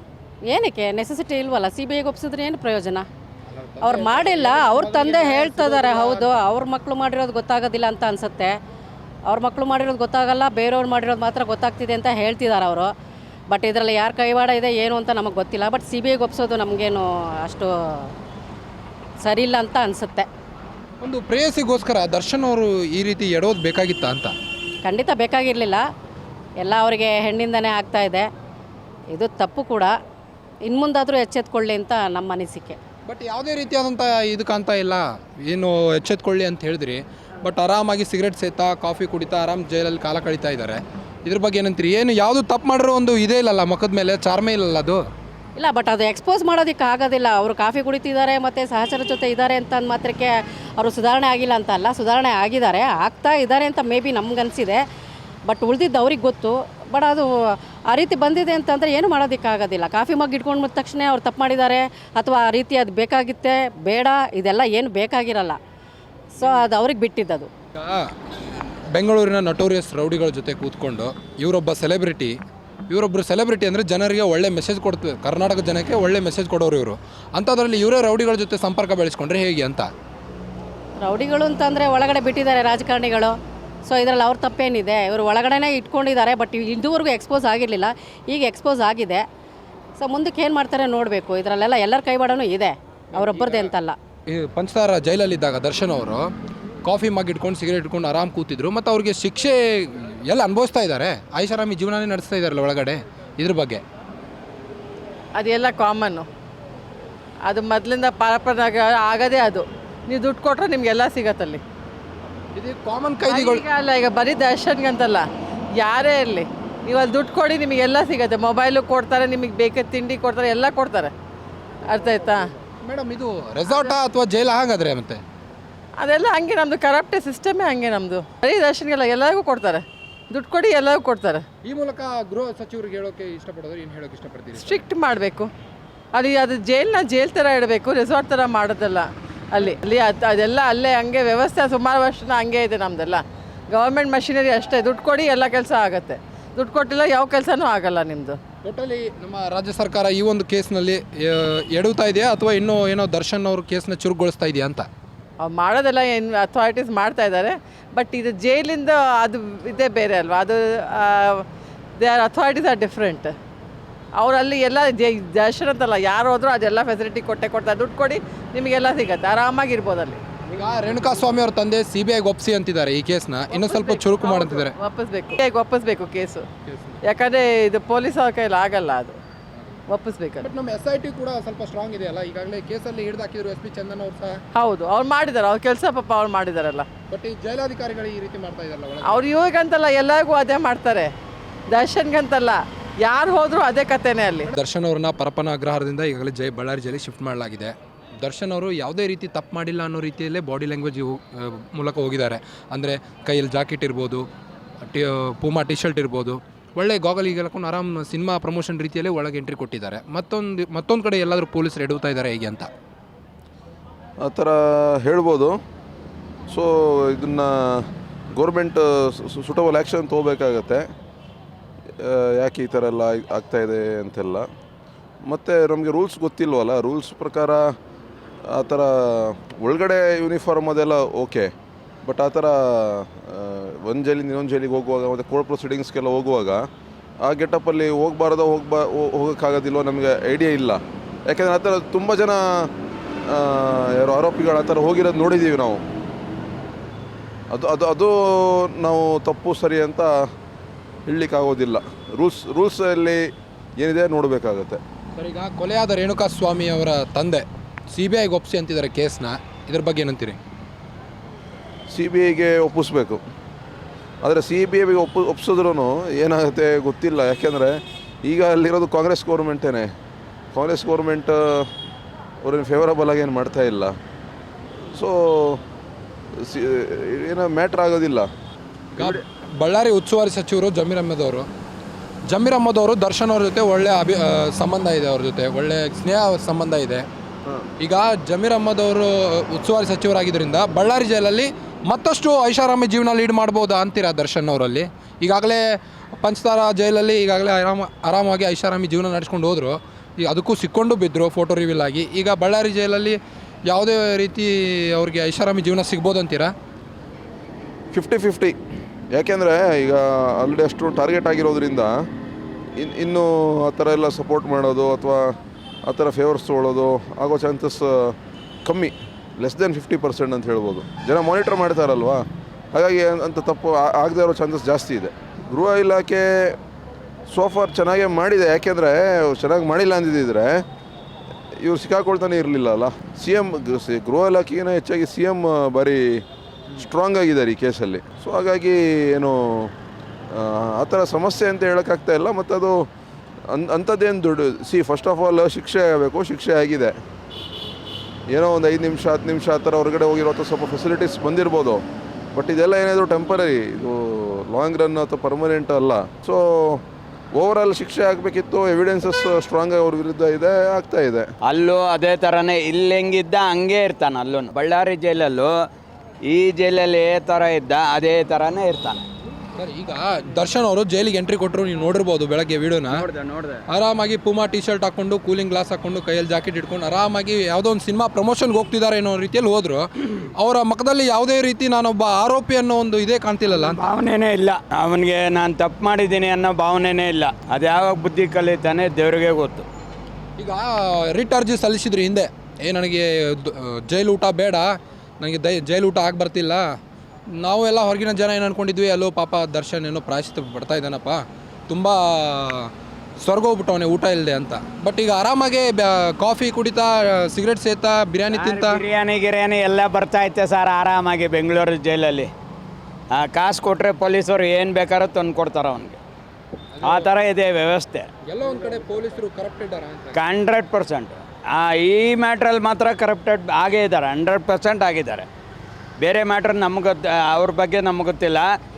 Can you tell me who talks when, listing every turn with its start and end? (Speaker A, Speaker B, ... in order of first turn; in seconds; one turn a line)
Speaker A: 0.5-3.0
Speaker B: 3.5-6.4
Speaker A: 3.8-8.5
Speaker A: 9.3-12.9
Speaker A: 13.5-18.1
Speaker A: 19.2-20.3
Speaker B: 21.0-24.3
Speaker A: 24.8-25.8
Speaker A: 26.6-28.3
Speaker A: 29.1-29.9
Speaker A: 30.6-32.8
Speaker B: 33.1-45.0
Speaker A: 45.6-54.8
Speaker A: 55.5-57.3
Speaker A: 57.9-65.6
Speaker A: 66.4-67.5
Speaker B: 67.7-68.1
Speaker B: 68.9-72.3
Speaker B: 72.9-79.9
Speaker A: 81.0-83.3
Speaker A: 83.9-89.2
Speaker A: 90.0-94.0
Speaker B: 93.1-93.7
Speaker B: 94.3-96.3
Speaker B: 96.8-103.8
Speaker C: 105.3-106.2
Speaker C: 107.5-111.6
Speaker B: 112.5-113.6
Speaker C: 113.3-115.2
Speaker C: 115.8-121.1
Speaker C: 121.9-122.4
Speaker B: 122.8-125.2
Speaker C: 123.7-123.9
Speaker C: 126.0-131.4
Speaker B: 131.6-134.8
Speaker C: 134.5-135.5
Speaker C: 136.1-148.4
Speaker B: 148.6-154.9
Speaker C: 155.4-161.4
Speaker C: 162.0-163.3
Speaker C: 164.2-170.2
Speaker B: 170.5-174.7
Speaker C: 173.5-176.5
Speaker B: 176.7-177.0
Speaker C: 177.0-179.2
Speaker C: 179.9-180.5
Speaker B: 180.4-184.4
Speaker C: 184.5-186.9
Speaker B: 187.1-189.3
Speaker C: 189.0-191.1
Speaker C: 191.7-194.5
Speaker B: 194.5-204.2
Speaker B: 204.8-212.7
Speaker D: 214.2-215.6
Speaker D: 216.5-220.9
Speaker D: 222.0-224.5
Speaker D: 225.2-227.7
Speaker D: 228.4-231.5
Speaker D: 232.0-236.7
Speaker D: 237.2-242.7
Speaker D: 243.3-245.8
Speaker D: 247.5-250.2
Speaker D: 251.1-254.8
Speaker B: 255.2-260.4
Speaker D: 261.9-263.2
Speaker D: 264.2-269.9
Speaker D: 270.5-271.7
Speaker D: 272.4-273.9
Speaker D: 274.9-275.6
Speaker D: 276.4-278.3
Speaker D: 279.0-279.2
Speaker B: 279.0-281.5
Speaker B: 282.3-287.1
Speaker B: 287.8-295.6
Speaker B: 296.1-303.2
Speaker B: 303.7-306.5
Speaker D: 307.9-308.6
Speaker D: 309.1-311.9
Speaker D: 312.8-326.6
Speaker D: 327.3-330.6
Speaker D: 331.6-336.2
Speaker D: 336.8-339.7
Speaker D: 340.3-342.9
Speaker D: 343.5-346.9
Speaker D: 348.3-351.8
Speaker D: 352.3-361.2
Speaker E: 361.5-365.5
Speaker E: 366.3-369.0
Speaker B: 369.6-373.1
Speaker E: 372.9-373.6
Speaker B: 373.7-383.8
Speaker E: 383.5-389.6
Speaker B: 390.4-394.7
Speaker B: 395.2-396.6
Speaker B: 397.4-402.7
Speaker B: 403.2-408.8
Speaker E: 408.3-412.3
Speaker E: 413.2-416.0
Speaker B: 416.8-417.1
Speaker E: 416.8-418.1
Speaker B: 418.3-420.2
Speaker E: 420.1-425.2
Speaker E: 426.0-428.4